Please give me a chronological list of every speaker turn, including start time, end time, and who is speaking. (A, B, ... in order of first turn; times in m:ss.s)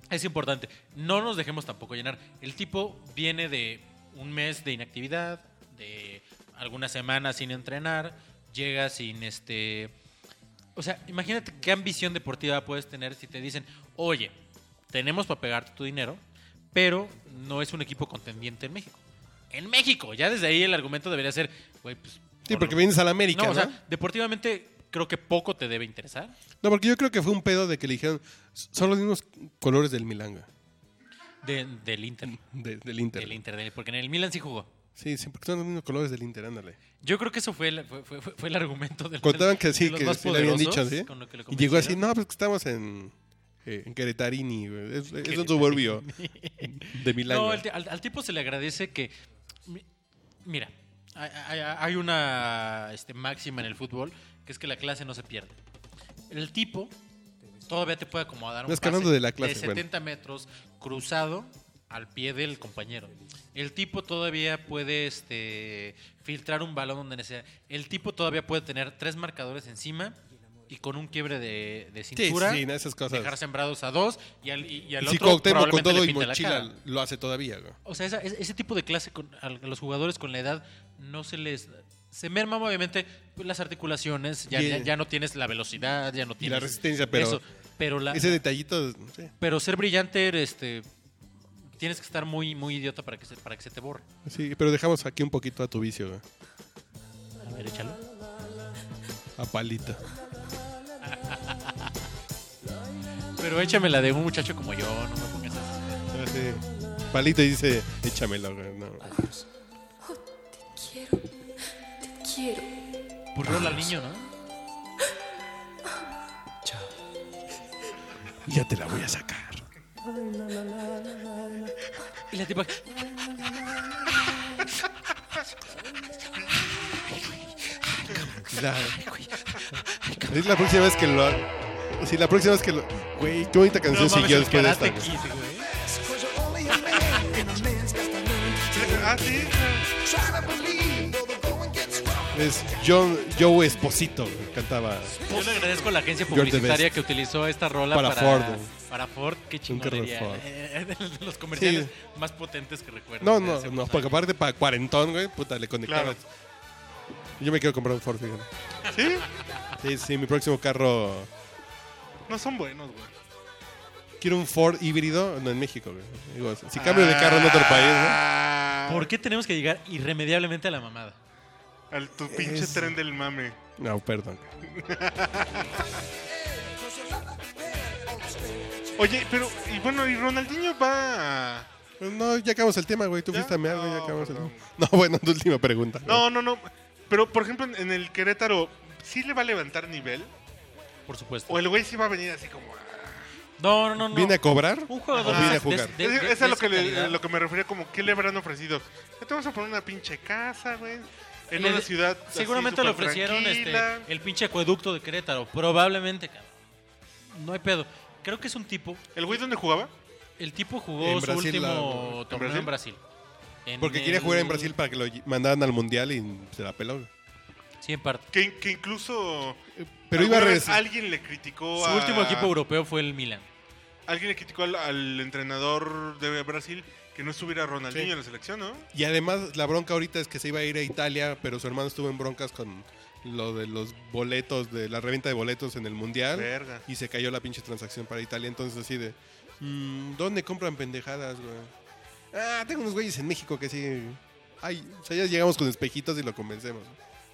0:00.1-0:09.9 A
0:10.8-0:14.4 A
0:14.9-0:16.2 A
0:16.7-0:26.4 A
0:22.5-0:23.8 B
0:26.6-0:30.5 B
0:31.4-0:32.4 A
0:32.2-0:33.4 B
0:33.2-0:34.7 A
0:35.0-0:36.8 B
0:37.0-0:42.0 A
0:39.2-0:46.1 B
0:45.2-0:49.1 A
0:46.6-0:47.6 B
0:50.4-0:55.6 A
0:56.3-0:56.9 A
0:57.7-1:10.2 A
0:58.7-0:59.9 B
1:10.7-1:16.7 A
1:12.2-1:13.4 B
1:15.0-1:17.8 B
1:17.8-1:28.4 A
1:24.5-1:24.9 B
1:26.4-1:27.4 B
1:28.1-1:29.3 B
1:29.4-1:30.9 A
1:31.7-1:34.1 A
1:34.2-1:36.2 B
1:37.4-1:38.0 A
1:39.4-1:40.0 B
1:41.0-1:41.9 A
1:43.4-1:46.0 A
1:46.1-1:49.3 B
1:53.3-1:54.3 A
1:58.4-2:01.7 B
2:02.3-2:03.1 A
2:03.4-2:04.0 B
2:06.9-2:10.6 A
2:08.4-2:09.0 B
2:10.3-2:15.1 B
2:13.9-2:15.7 A
2:15.6-2:22.7 C
2:18.7-2:19.9 D
2:22.3-2:25.2 B
2:25.2-2:25.8 C
2:25.2-2:34.2 A
2:26.3-2:26.9 B
2:27.9-2:28.7 B
2:29.7-2:30.4 B
2:31.5-2:31.9 B
2:33.2-2:36.2 B
2:35.8-2:36.2 D
2:37.4-2:38.5 B
2:38.9-2:39.3 D
2:39.8-2:41.3 B
2:42.3-2:43.1 D
2:44.2-2:48.2 B
2:46.8-2:49.1 D
2:48.9-2:51.2 A
2:51.9-2:53.6 D
2:52.3-2:53.0 B
2:53.8-2:54.5 B
2:54.7-2:55.8 D
2:55.6-2:59.9 C
2:59.0-3:01.7 D
3:02.0-3:06.2 B
3:03.3-3:04.7 D
3:06.1-3:10.3 D
3:11.1-3:11.6 A
3:11.5-3:13.3 D
3:13.6-3:17.2 A
3:14.0-3:16.0 B
3:15.2-3:24.1 D
3:21.6-3:26.6 A
3:27.3-3:29.0 A
3:29.2-3:29.9 D
3:30.4-3:33.0 A
3:31.0-3:32.2 B
3:32.3-3:32.7 D
3:33.7-3:34.8 A
3:33.8-3:37.1 B
3:37.8-3:38.3 A
3:38.3-3:39.6 D
3:39.8-3:40.8 B
3:40.1-3:42.5 D
3:41.8-3:43.5 A
3:44.1-3:48.9 D
3:48.9-4:01.7 B
3:56.3-3:56.8 D
4:02.3-4:07.0 B